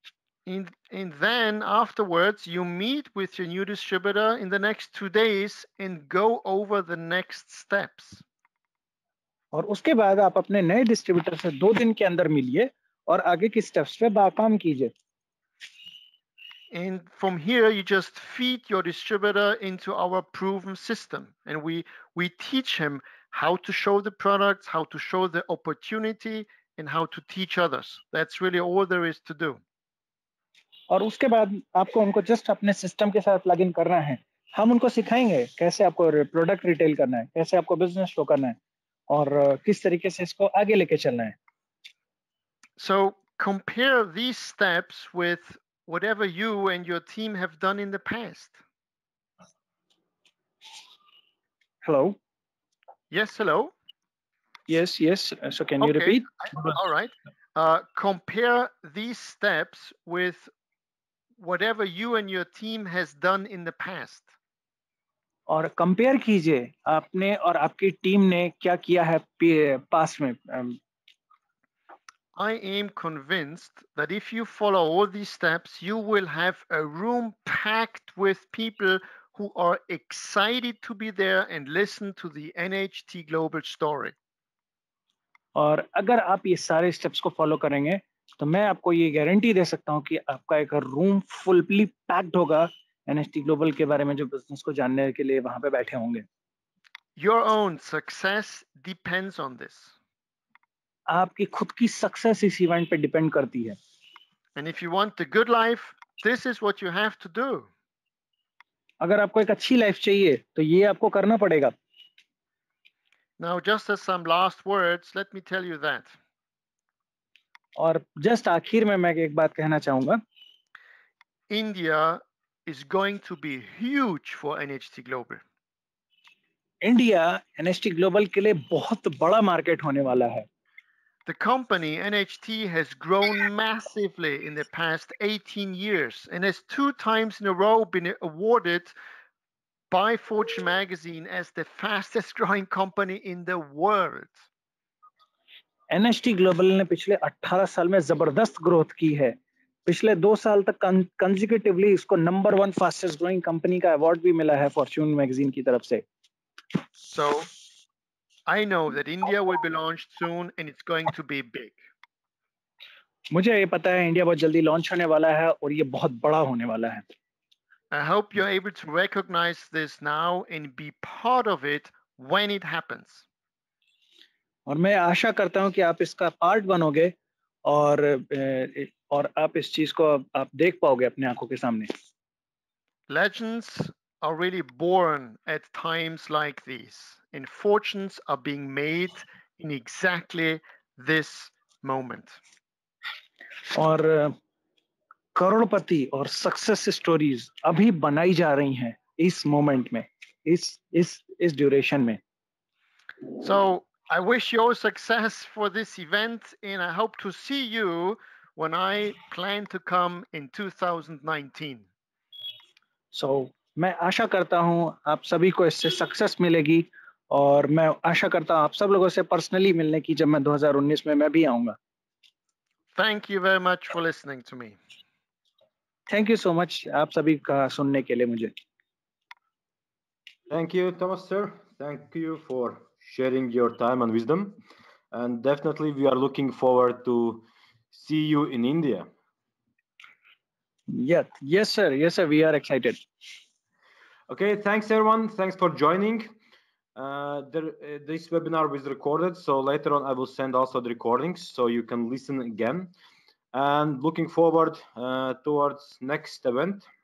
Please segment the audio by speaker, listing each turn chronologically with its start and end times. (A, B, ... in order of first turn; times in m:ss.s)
0:00.5-0:08.2 A
0:09.5-0:14.9 B
0:16.7-0:29.6 A
0:30.9-0:38.6 B
0:39.1-0:41.4 B
0:42.8-0:48.6 A
0:51.8-0:52.2 B
0:53.1-0:53.7 A
0:54.7-0:56.2 B
0:55.8-1:00.5 A
1:01.4-1:04.3 A
1:05.5-1:10.8 B
1:12.4-1:24.2 A
1:25.6-1:36.2 B
1:37.2-1:39.9 A
1:41.1-1:43.8 B
1:44.6-1:47.7 A
1:49.0-1:51.7 B
1:53.4-1:56.2 A
1:57.8-2:00.2 B
2:01.5-2:05.4 A
2:06.8-2:10.5 B
2:11.3-2:18.9 A
2:19.9-2:24.5 A
2:25.9-2:29.4 B
2:29.9-2:36.0 B
2:37.1-2:37.5 A
2:38.5-2:41.8 A
2:43.3-2:47.0 B
2:47.9-2:53.2 A
2:54.7-2:57.2 B
2:57.7-3:01.9 B
3:03.1-3:12.4 A
3:13.7-3:14.4 B
3:15.4-3:22.2 B
3:23.4-3:31.8 A
3:33.1-3:41.8 B
3:43.0-3:44.8 A
3:46.1-3:48.5 B
3:50.5-3:54.6 C
3:55.1-3:59.1 C
4:00.9-4:03.0 B
4:04.3-4:06.3 C
4:07.0-4:12.9 C
4:13.5-4:16.9 C